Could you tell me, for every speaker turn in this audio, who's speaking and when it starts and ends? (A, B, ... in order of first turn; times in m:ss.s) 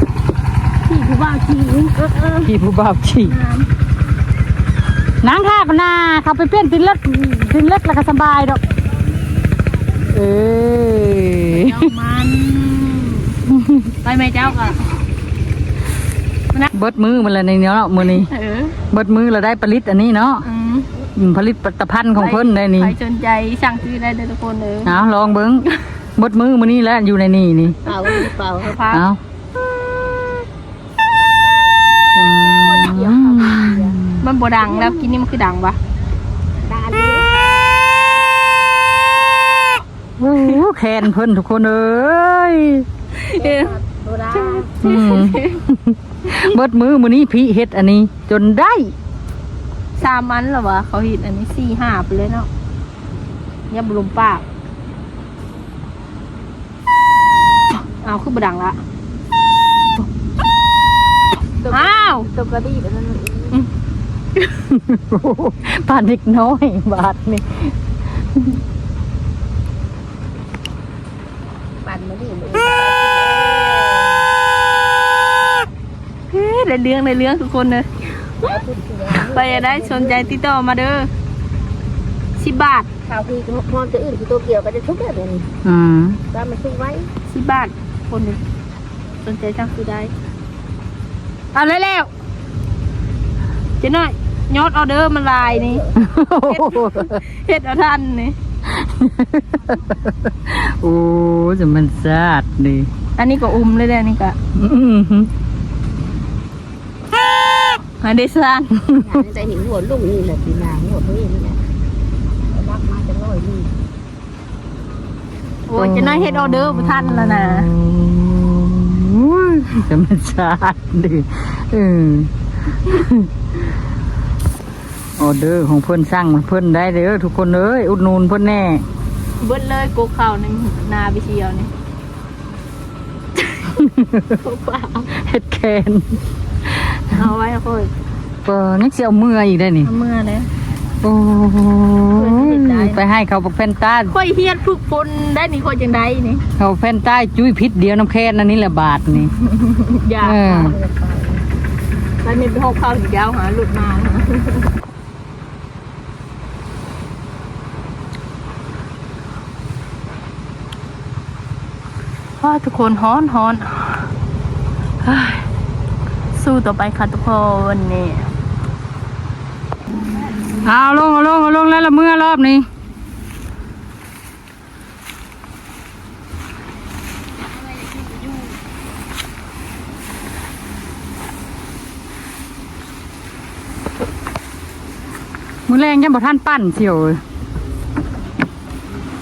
0:00.8-0:02.5 A
0:02.4-0:03.3 B
0:03.2-0:03.7 A
0:05.2-0:08.6 B
0:10.1-0:11.8 B
0:11.5-0:13.4 A
0:13.5-0:13.9 B
0:14.0-0:14.9 A
0:16.7-0:18.3 B
0:18.3-0:18.8 A
0:18.9-0:20.4 B
0:20.4-0:20.9 A
0:21.1-0:22.9 B
0:22.2-0:25.0 A
0:24.8-0:25.6 B
0:26.2-0:27.8 B
0:27.8-0:28.7 C
0:28.1-0:29.0 A
0:28.9-0:29.2 B
0:32.1-0:34.2 B
0:32.3-0:34.0 C
0:34.2-0:35.8 A
0:34.6-0:35.1 C
0:36.6-0:37.3 C
0:40.2-0:42.8 B
0:43.2-0:43.8 A
0:43.3-0:44.8 C
0:44.3-0:45.6 A
0:44.8-0:48.9 B
0:50.0-0:52.5 A
0:53.7-0:54.4 A
0:58.0-0:58.8 A
1:01.6-1:03.6 C
1:01.7-1:02.3 A
1:04.4-1:07.8 B
1:11.8-1:14.2 C
1:16.3-1:17.9 A
1:18.4-1:20.4 C
1:19.2-1:21.1 A
1:22.4-1:22.9 A
1:23.0-1:25.5 C
1:25.6-1:26.2 B
1:26.3-1:27.1 C
1:27.3-1:28.4 A
1:29.2-1:30.1 A
1:31.5-1:32.1 B
1:33.8-1:35.8 A
1:35.6-1:36.0 C
1:35.9-1:37.2 B
1:36.4-1:38.4 A
1:38.6-1:42.9 B
1:43.2-1:44.4 A
1:44.5-1:45.3 B
1:48.0-1:48.8 A
1:48.8-1:49.2 B
1:48.8-1:51.6 C
1:52.5-1:53.7 C
1:55.7-1:57.7 A
1:55.7-2:03.3 B
2:05.2-2:08.8 B
2:09.4-2:11.7 A
2:13.6-2:14.4 B
2:14.4-2:15.1 A
2:15.1-2:17.3 B
2:17.1-2:17.9 A
2:18.4-2:19.9 B
2:19.8-2:20.5 A
2:21.0-2:24.1 B
2:22.1-2:23.0 A
2:24.1-2:26.4 A
2:26.6-2:29.3 B
2:29.4-2:30.7 A
2:30.2-2:30.8 B
2:30.5-2:31.4 C
2:32.2-2:34.7 A
2:42.4-2:44.1 A
2:45.0-2:45.5 A
2:46.3-2:48.3 A
2:50.6-2:52.6 B
2:57.5-2:58.6 C
3:05.7-3:07.2 B
3:08.7-3:09.1 C